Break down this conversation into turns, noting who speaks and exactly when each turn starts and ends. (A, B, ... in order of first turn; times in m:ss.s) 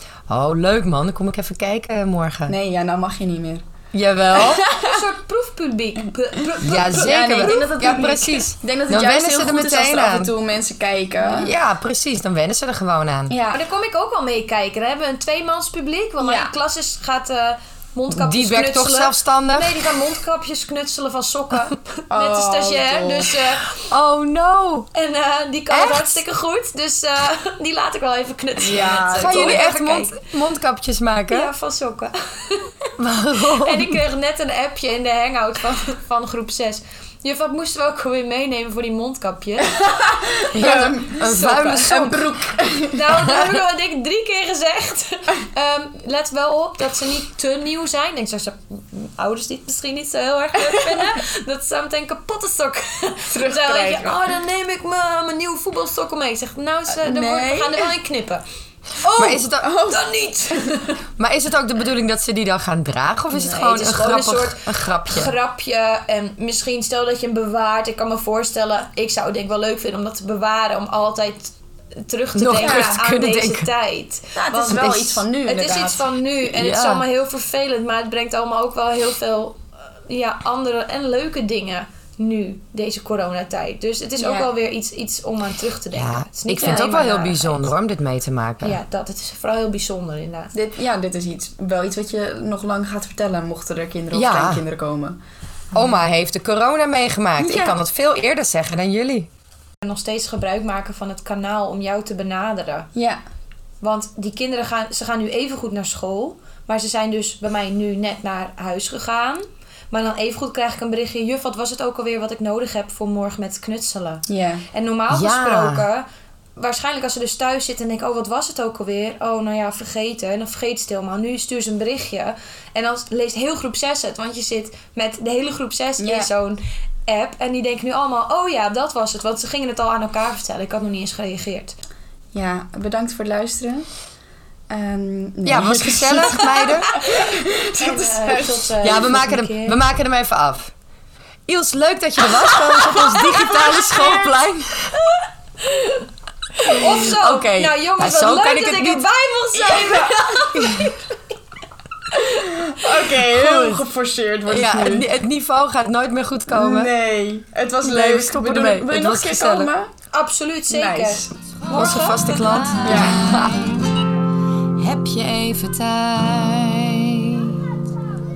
0:00.3-0:02.6 A
0:02.5-0:03.6 B
0:03.9-0:04.6 A
0:04.4-0:05.0 B
0:04.8-0:07.6 C
0:06.6-0:10.3 A
0:06.8-0:11.5 B
0:11.2-0:11.5 C
0:11.4-0:13.4 A
0:13.3-0:13.6 B
0:13.5-0:23.7 C
0:16.2-0:16.5 B
0:18.1-0:20.0 A
0:22.1-0:23.4 B
0:23.8-0:24.9 A
0:24.9-0:30.2 C
0:25.7-0:26.2 A
0:28.6-0:29.6 B
0:29.1-0:31.5 A
0:31.3-0:32.7 C
0:33.0-0:34.0 A
0:33.4-0:39.8 C
0:39.7-0:43.0 B
0:40.5-0:42.4 A
0:41.2-0:42.0 C
0:42.8-0:58.4 C
0:53.3-0:54.3 B
0:57.0-0:57.9 B
0:59.0-1:01.0 C
0:59.1-0:59.7 A
0:59.6-1:00.1 B
1:01.2-1:05.3 A
1:03.3-1:27.7 C
1:12.3-1:13.7 A
1:12.6-1:12.9 B
1:14.3-1:16.1 B
1:16.5-1:17.0 A
1:24.2-1:24.5 B
1:25.9-1:28.8 A
1:26.6-1:26.9 B
1:28.6-1:30.5 C
1:30.5-1:35.2 B
1:34.1-1:34.6 A
1:35.7-1:39.3 A
1:37.4-1:37.8 B
1:39.8-1:42.9 C
1:43.0-1:43.2 B
1:43.8-2:11.8 C
1:54.3-1:54.6 B
1:55.1-1:55.8 A
2:06.0-2:06.3 B
2:12.3-2:13.9 B
2:14.7-2:19.0 B
2:15.4-2:16.9 A
2:16.9-2:19.8 C
2:18.8-2:20.7 A
2:21.5-2:24.9 A
2:24.0-2:24.2 B
2:25.6-2:31.1 C
2:26.6-2:29.1 A
2:29.5-2:30.5 B
2:30.6-2:30.9 A
2:32.1-2:32.5 C
2:32.2-2:35.1 B
2:33.2-2:33.8 A
2:34.5-2:36.9 A
2:36.5-2:39.9 B
2:37.8-2:39.7 A
2:40.1-2:43.2 C
2:40.7-2:41.3 B
2:41.7-2:43.9 A
2:42.8-2:43.4 B
2:44.8-2:47.6 A